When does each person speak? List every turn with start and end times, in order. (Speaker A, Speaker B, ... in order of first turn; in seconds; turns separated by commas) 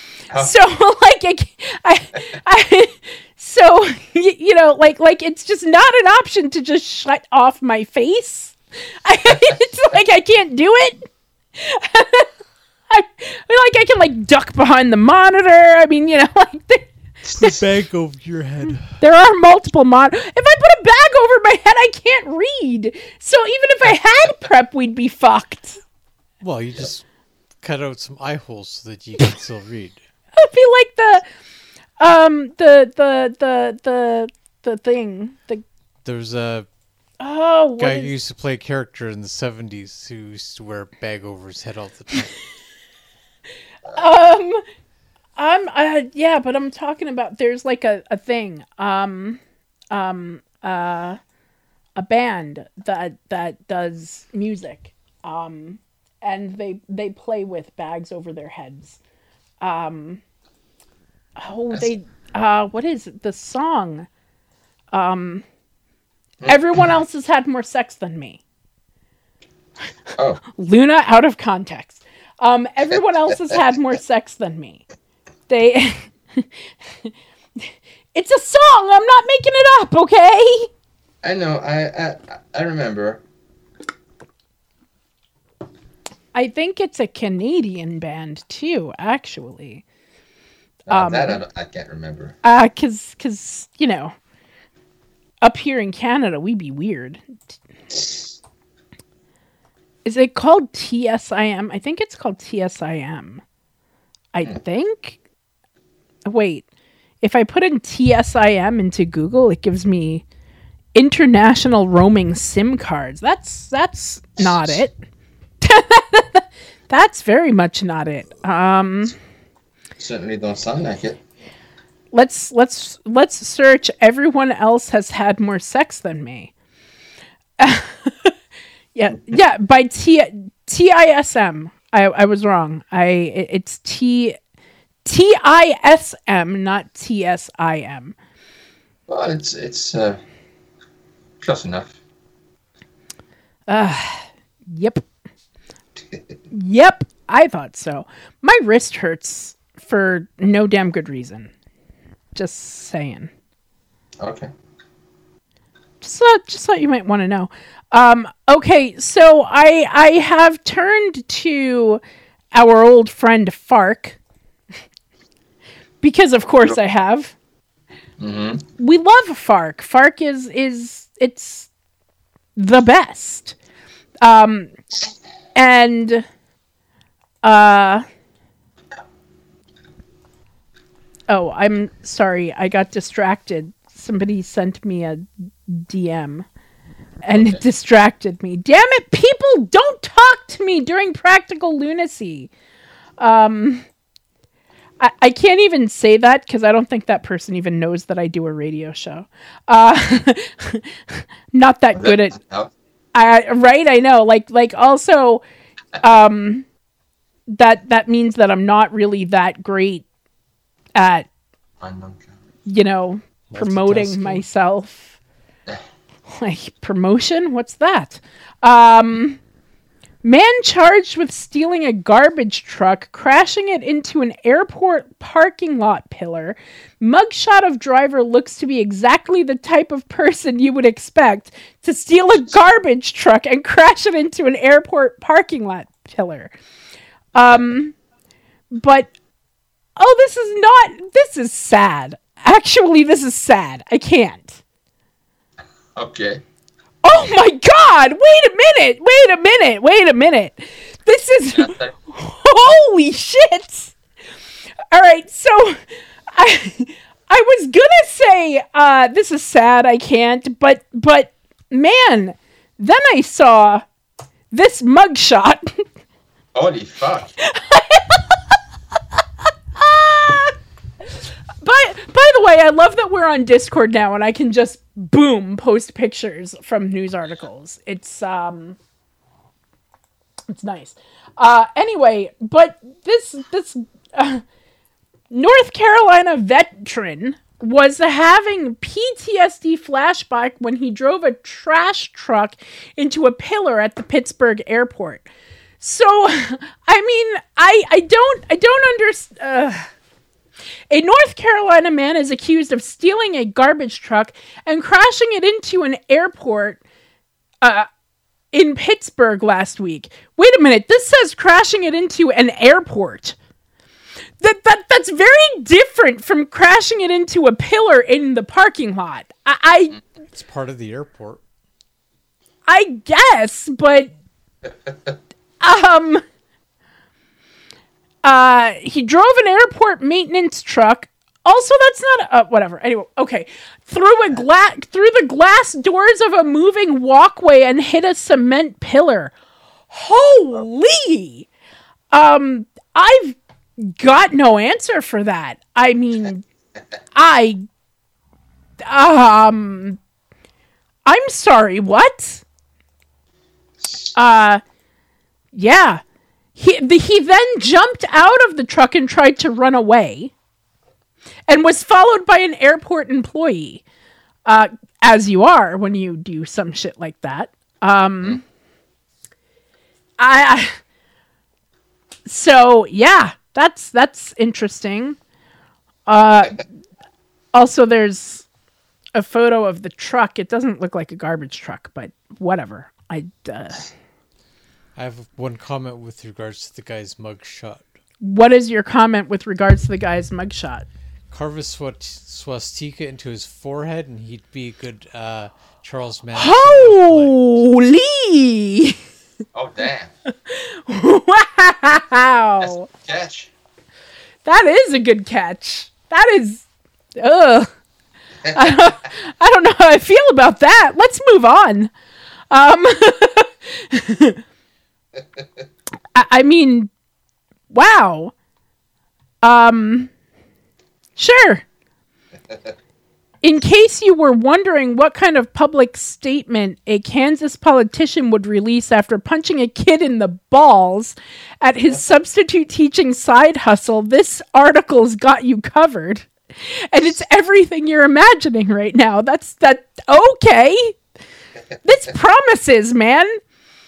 Speaker A: 0.3-12.3, Speaker A: 12.9-16.9, Speaker B: 17.4-19.0, Speaker A: 19.0-25.8, Speaker B: 26.4-27.0, Speaker B: 27.6-30.0, Speaker A: 30.3-31.2, Speaker A: 32.0-35.6, Speaker B: 36.0-36.7, Speaker A: 37.2-38.1, Speaker B: 37.8-42.4, Speaker A: 43.9-44.6, Speaker A: 45.4-49.4, Speaker A: 49.9-51.2, Speaker A: 52.0-59.0, Speaker A: 59.6-60.2, Speaker A: 61.4-64.1, Speaker A: 64.9-65.4, Speaker A: 66.4-68.4, Speaker C: 70.2-70.4, Speaker A: 70.5-74.8, Speaker C: 73.3-73.5, Speaker A: 75.5-76.5, Speaker A: 77.0-80.7, Speaker C: 81.2-83.2, Speaker A: 86.3-89.8, Speaker C: 90.9-92.3, Speaker A: 90.9-91.4, Speaker A: 92.4-94.1, Speaker A: 95.4-97.5, Speaker C: 97.9-98.3, Speaker A: 100.0-103.4, Speaker A: 104.3-105.2, Speaker A: 106.2-106.6, Speaker A: 107.2-110.2, Speaker A: 110.9-115.0, Speaker C: 114.4-114.8, Speaker A: 115.6-119.1, Speaker C: 120.0-121.2, Speaker A: 122.1-126.5, Speaker A: 127.6-128.3, Speaker A: 128.9-134.4, Speaker A: 135.0-138.1, Speaker C: 139.1-140.2, Speaker C: 141.4-141.9, Speaker A: 143.7-145.0, Speaker A: 146.5-151.5, Speaker A: 152.3-153.3, Speaker C: 154.2-154.5, Speaker A: 156.0-162.0, Speaker A: 162.5-164.2, Speaker A: 166.0-167.3, Speaker C: 168.2-168.7, Speaker A: 168.8-171.7, Speaker A: 172.6-173.6, Speaker A: 174.2-174.7, Speaker A: 175.5-176.2, Speaker A: 177.4-178.0, Speaker A: 181.3-186.4, Speaker A: 187.2-192.5, Speaker C: 187.3-187.6, Speaker A: 193.2-193.8, Speaker A: 195.0-202.4, Speaker C: 201.9-202.7, Speaker A: 203.1-205.4, Speaker A: 206.0-206.7, Speaker A: 207.5-210.0, Speaker A: 210.9-211.3, Speaker C: 211.8-212.3, Speaker A: 212.7-215.2, Speaker B: 213.5-214.4, Speaker A: 216.3-219.4, Speaker A: 220.2-236.5, Speaker A: 237.3-237.9, Speaker A: 238.7-239.1, Speaker A: 240.0-244.6, Speaker C: 245.9-246.4, Speaker A: 247.0-253.9, Speaker C: 251.6-251.9, Speaker A: 254.9-255.8, Speaker A: 256.3-263.8, Speaker A: 264.5-265.8, Speaker C: 266.5-267.3, Speaker A: 267.4-268.3, Speaker A: 269.8-270.6, Speaker A: 271.6-278.8, Speaker A: 280.5-284.4, Speaker A: 285.3-295.3, Speaker A: 295.8-299.9, Speaker A: 300.9-306.8, Speaker A: 307.6-307.9, Speaker A: 308.5-313.4, Speaker A: 314.4-320.0, Speaker B: 320.3-321.4, Speaker A: 322.7-324.1, Speaker C: 324.6-325.2, Speaker A: 325.6-326.2, Speaker A: 328.2-339.3, Speaker A: 339.9-341.5, Speaker A: 342.1-346.4, Speaker A: 347.1-347.6, Speaker A: 348.8-350.0, Speaker A: 351.1-352.4, Speaker C: 353.8-354.1, Speaker A: 354.1-354.6, Speaker A: 355.5-356.0, Speaker A: 356.6-360.3, Speaker A: 361.5-363.8, Speaker A: 364.4-368.4, Speaker A: 370.2-370.8, Speaker A: 372.2-375.2, Speaker A: 376.1-376.6, Speaker A: 377.5-378.5, Speaker A: 379.1-383.9, Speaker B: 384.9-387.8, Speaker A: 388.2-390.9, Speaker B: 391.3-397.4, Speaker A: 396.4-399.0, Speaker C: 399.5-400.1, Speaker A: 400.4-402.9, Speaker C: 402.6-403.5, Speaker A: 404.4-406.6, Speaker A: 407.2-407.7, Speaker A: 408.5-411.9, Speaker A: 412.5-414.4, Speaker C: 415.2-415.4, Speaker A: 416.1-416.9, Speaker A: 417.7-418.3, Speaker A: 419.4-420.1, Speaker A: 421.1-421.6, Speaker A: 423.4-436.3, Speaker A: 436.9-441.0, Speaker A: 441.8-443.4